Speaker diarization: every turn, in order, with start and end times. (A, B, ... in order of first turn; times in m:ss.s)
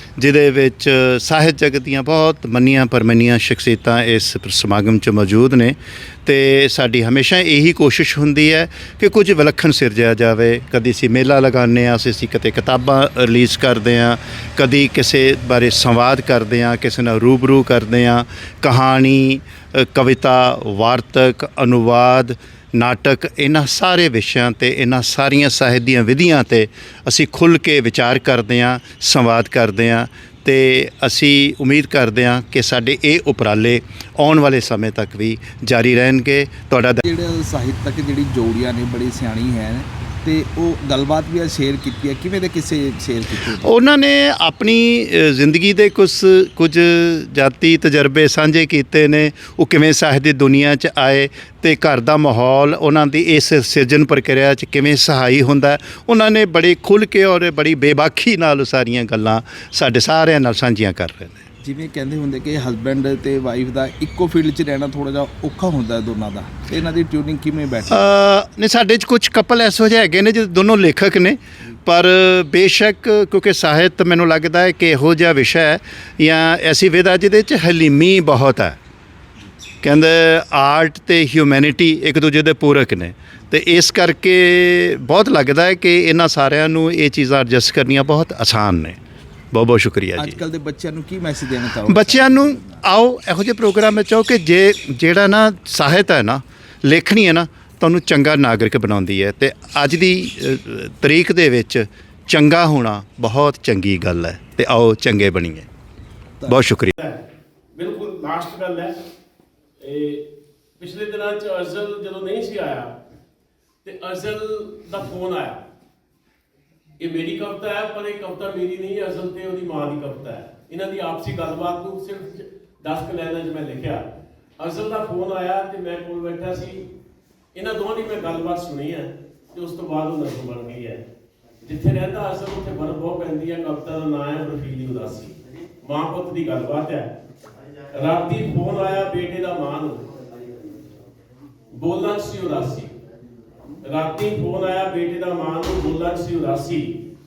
0:00.2-0:37.0 A
0:37.0-0:43.7 B
0:43.4-1:01.4 A
1:01.6-1:08.1 B
1:07.9-1:18.8 A
1:19.8-1:29.0 A
1:29.5-1:30.4 A
1:30.2-1:32.8 B
1:31.8-1:45.7 A
1:46.4-1:46.9 A
1:47.0-1:47.2 C
1:47.7-1:48.9 C
1:49.8-1:50.2 C
1:50.8-1:52.9 C
1:53.8-1:55.6 C
1:57.0-2:04.0 C
2:04.6-2:06.8 C
2:07.5-2:11.0 C
2:11.6-2:17.1 C
2:17.9-2:20.1 C
2:21.7-2:22.9 C
2:23.8-2:27.0 C